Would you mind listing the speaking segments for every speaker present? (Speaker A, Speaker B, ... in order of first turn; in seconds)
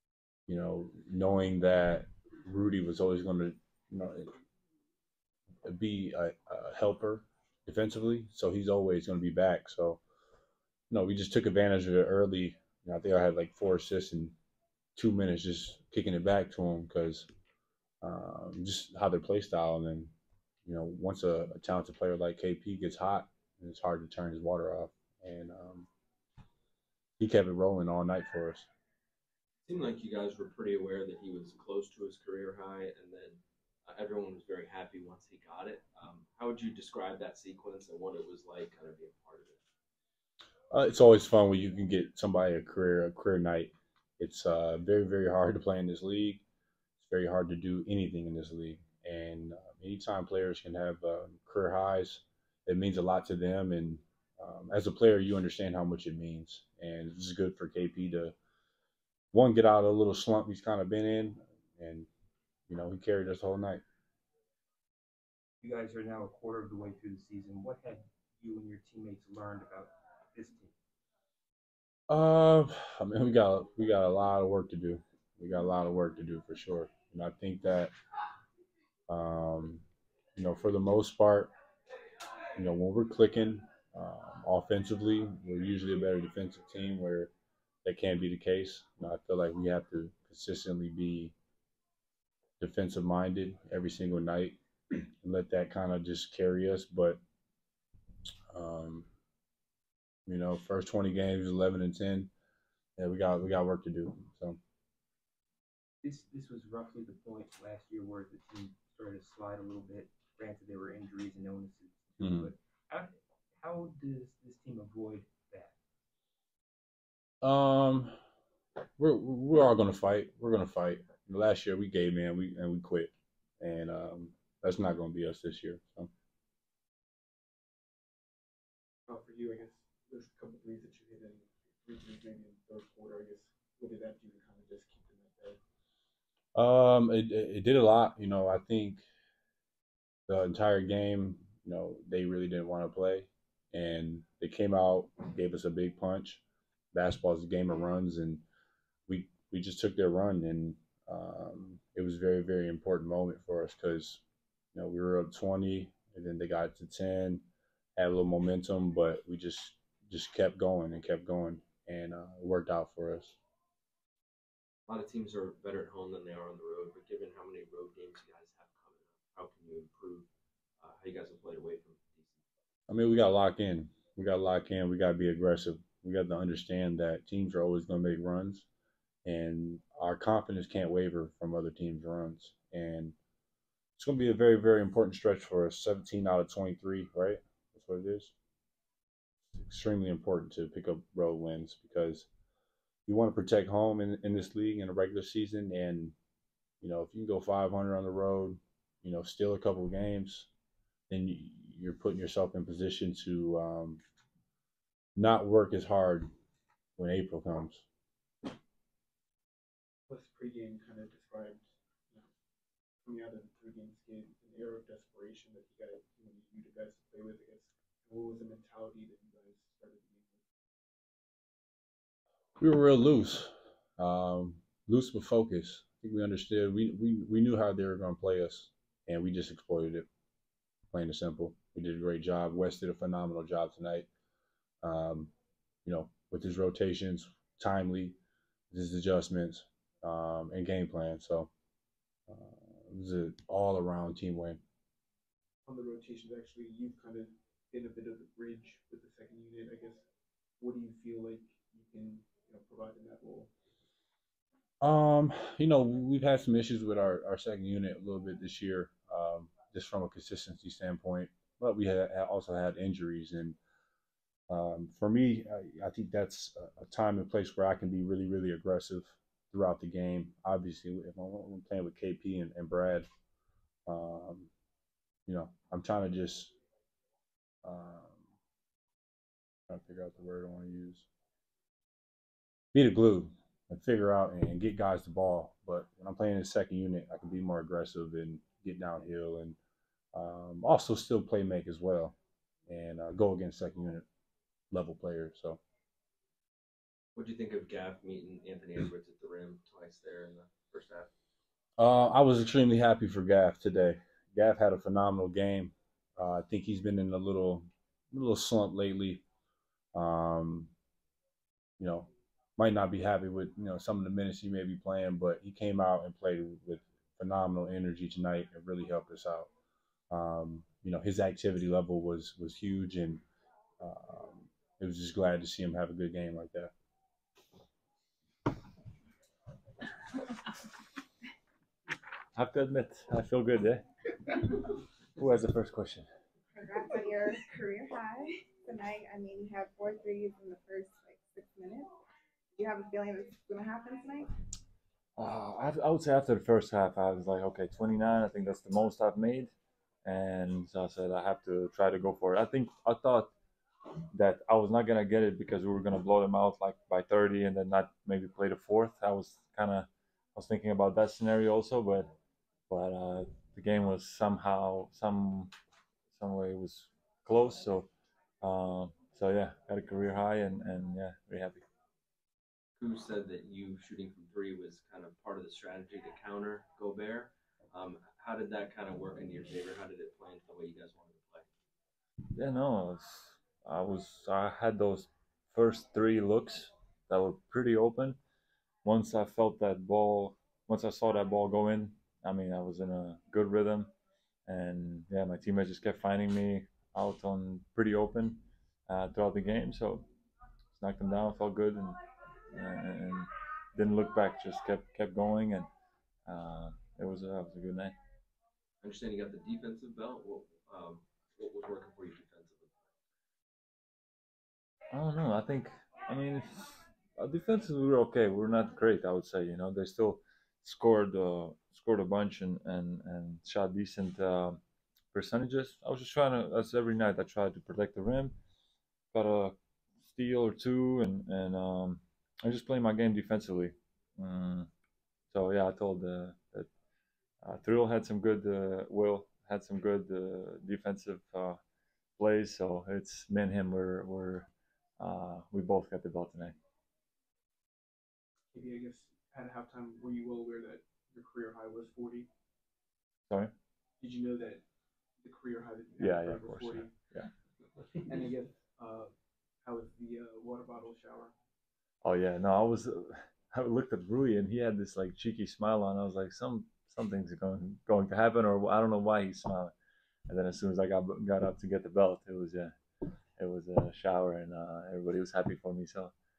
Speaker A: 0.5-4.3, 5.7-10.0, 10.9-14.3, 14.9-17.3, 18.0-20.1, 20.6-25.9, 27.2-28.6, 40.7-46.4, 47.0-58.3, 59.3-62.1, 62.7-63.8, 72.1-77.9, 79.1-79.8, 80.3-81.5, 82.5-87.3, 87.8-91.3, 92.6-97.2, 98.5-99.1, 100.2-102.3, 103.0-104.6, 112.2-112.5, 117.4-118.1, 119.0-126.1, 136.5-139.0, 140.3-146.4, 146.9-148.4, 149.1-154.2, 154.7-157.4, 157.9-163.4, 172.9-178.7, 179.2-183.2, 184.0-188.3, 189.6-192.3, 193.1-196.1, 196.8-200.5, 201.1-204.0, 205.2-206.3, 207.0-207.8, 222.6-230.1, 230.9-234.1, 234.8-235.3, 235.8-238.2, 238.7-241.5, 242.3-244.6, 254.8-263.6, 264.5-273.1, 273.9-274.5, 275.3-276.5, 277.6-278.3, 279.7-281.1, 282.7-289.6, 290.1-292.1, 292.7-294.1, 294.7-295.6, 301.8-309.2, 309.9-310.7, 311.8-319.5, 320.1-323.2, 323.8-326.7
Speaker B: 29.7-39.6, 164.9-170.3, 170.8-172.4, 297.2-301.1, 372.8-381.5, 408.8-412.7
Speaker C: 65.6-70.7, 106.0-115.7
Speaker D: 129.1-135.6, 210.1-212.2, 213.0-220.4, 245.7-250.0, 250.6-253.5, 448.5-452.3, 454.0-454.6, 455.2-456.9, 458.1-459.1, 459.6-461.3
Speaker E: 332.3-336.1, 345.2-349.5, 350.0-353.3, 354.1-362.1, 362.7-365.5, 366.1-367.9, 368.4-371.6, 382.3-388.2, 388.8-393.9, 394.5-400.1, 400.7-402.0, 402.5-405.6, 406.3-407.9, 414.9-424.6, 425.1-428.4, 429.1-434.7, 435.3-436.7, 437.4-441.6, 442.2-446.5, 456.0-457.3, 462.0-469.7, 470.3-472.7, 473.4-476.1
Speaker F: 336.5-341.9, 342.6-344.3